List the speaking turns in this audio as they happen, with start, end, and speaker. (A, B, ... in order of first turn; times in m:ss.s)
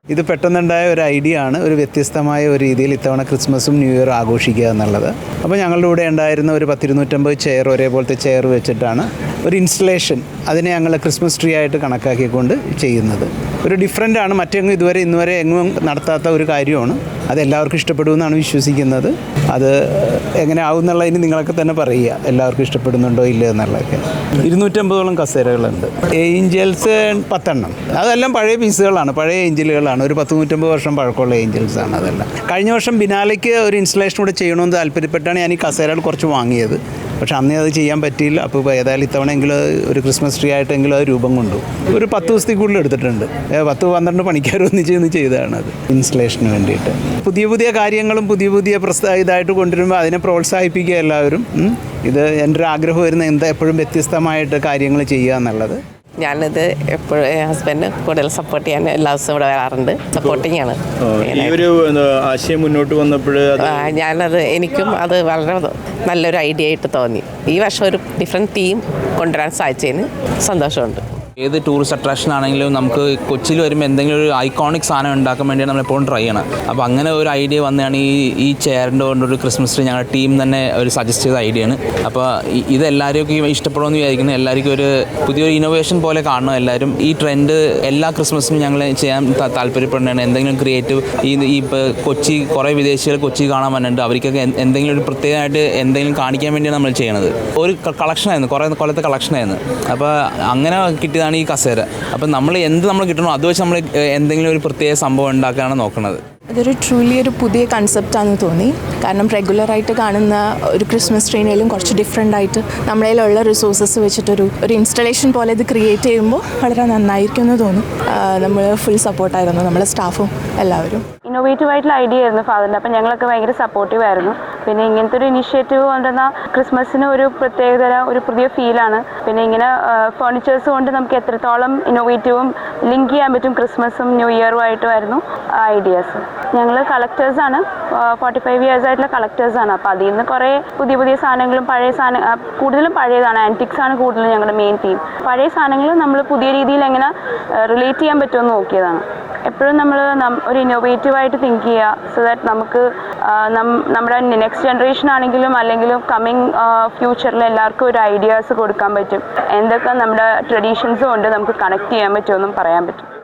0:00.1-0:55.8 A
0:56.2-1:01.7 B
1:00.1-1:00.5 C
1:01.1-1:04.0 C
1:03.6-1:11.0 B
1:11.4-1:46.2 D
1:46.5-2:01.0 E
2:01.3-2:43.1 F